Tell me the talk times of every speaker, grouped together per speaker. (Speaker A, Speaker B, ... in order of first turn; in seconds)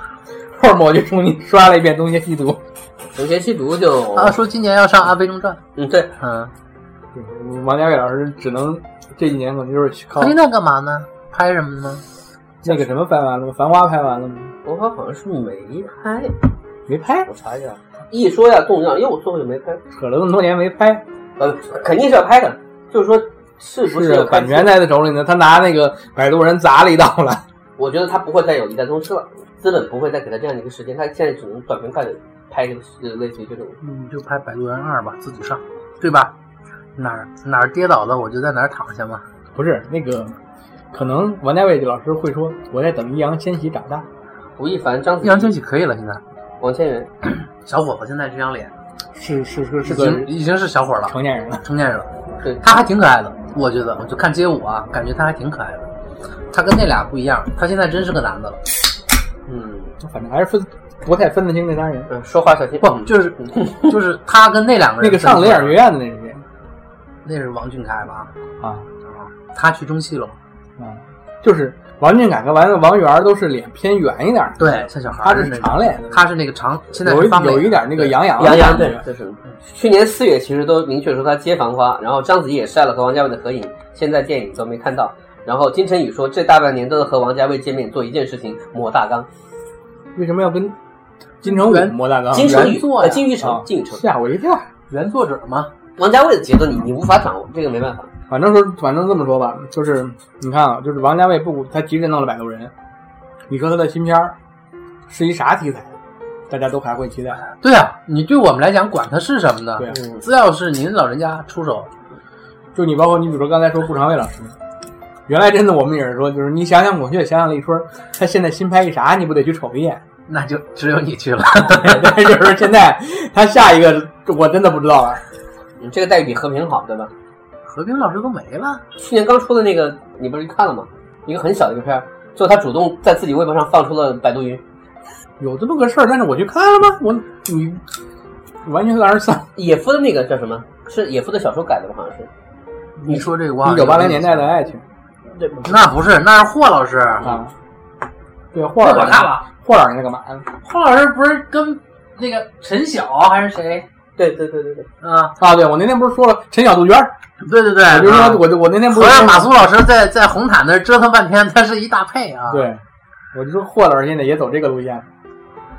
Speaker A: 0.5-2.6, 7.1-10.3, 12.6-14.5, 16.9-17.3, 19.9-21.0, 23.9-27.4, 39.5-40.4, 40.9-44.0, 49.1-50.3, 51.1-51.6, 60.0-62.1, 65.0-66.4, 68.6-68.9, 70.8-76.2, 77.0-79.0, 90.1-90.7, 91.4-92.8, 93.4-94.7, 98.3-102.7, 103.5-104.3, 105.1-105.9, 106.5-107.4, 112.7-114.5, 115.3-120.0, 121.6-125.2, 135.4-137.8, 138.6-139.5, 143.0-144.8, 147.2-147.5, 148.5-150.4, 155.4-157.1, 157.8-159.5, 162.5-162.8, 163.3-165.1
Speaker B: 3.1-4.4, 5.8-6.1, 14.6-16.4, 17.3-19.8, 21.4-24.7, 27.8-33.8, 44.6-45.5, 46.6-47.1, 59.5-59.9, 62.1-64.0, 78.4-89.3, 92.3-94.0, 96.0-98.1, 125.8-127.1, 129.0-134.6, 139.6-142.3, 145.4-145.7, 154.2-154.9
Speaker C: 4.1-5.6, 6.2-6.5, 10.1-12.0, 33.8-36.3, 36.9-39.2, 45.2-46.2, 47.4-48.7, 49.8-55.9, 56.5-58.6, 62.8-65.8, 67.2-68.3, 69.0-70.4, 74.6-78.1, 91.5-93.2, 94.9-95.7, 107.6-111.9, 120.3-122.4, 127.6-128.8, 143.1-144.5, 145.6-147.3, 148.8-149.4, 150.6-153.9, 155.0-155.4, 157.4-162.7